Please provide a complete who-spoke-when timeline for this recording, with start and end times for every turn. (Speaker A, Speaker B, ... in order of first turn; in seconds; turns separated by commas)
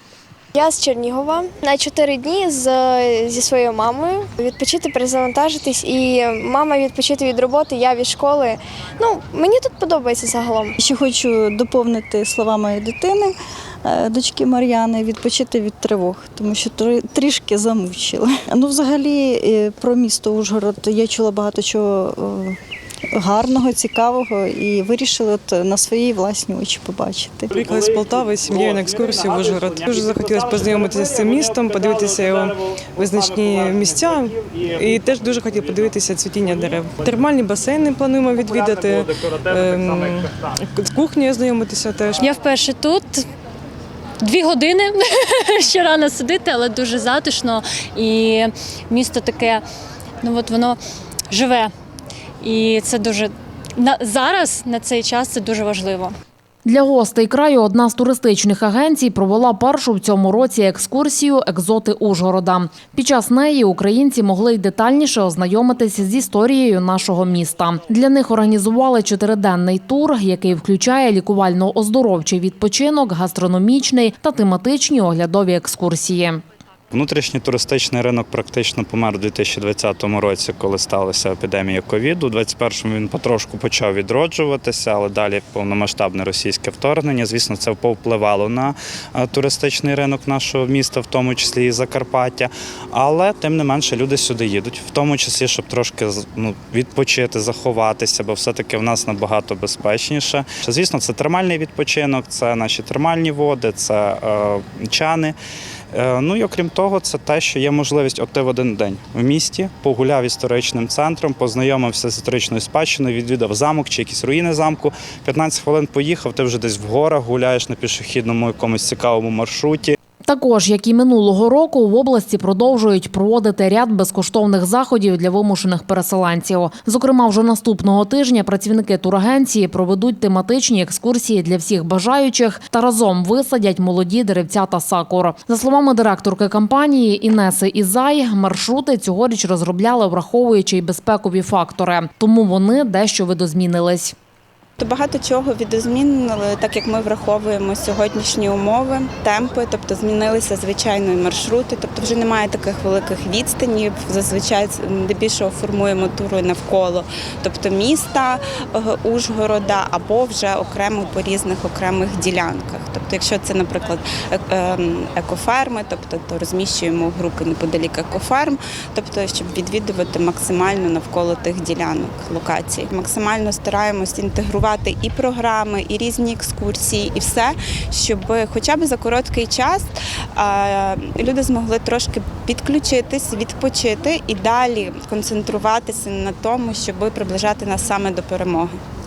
Speaker A: 0.6-10.7, Speaker B: 10.8-22.6, Speaker B: 23.1-27.7, Speaker C: 27.6-42.3, Speaker D: 42.2-43.2, Speaker D: 44.2-49.6, Speaker D: 50.2-50.8, Speaker D: 51.3-51.7, Speaker D: 52.4-56.1, Speaker E: 56.7-76.4, Speaker F: 76.9-105.4, Speaker F: 105.9-120.0, Speaker E: 120.3-144.2, Speaker G: 144.8-188.8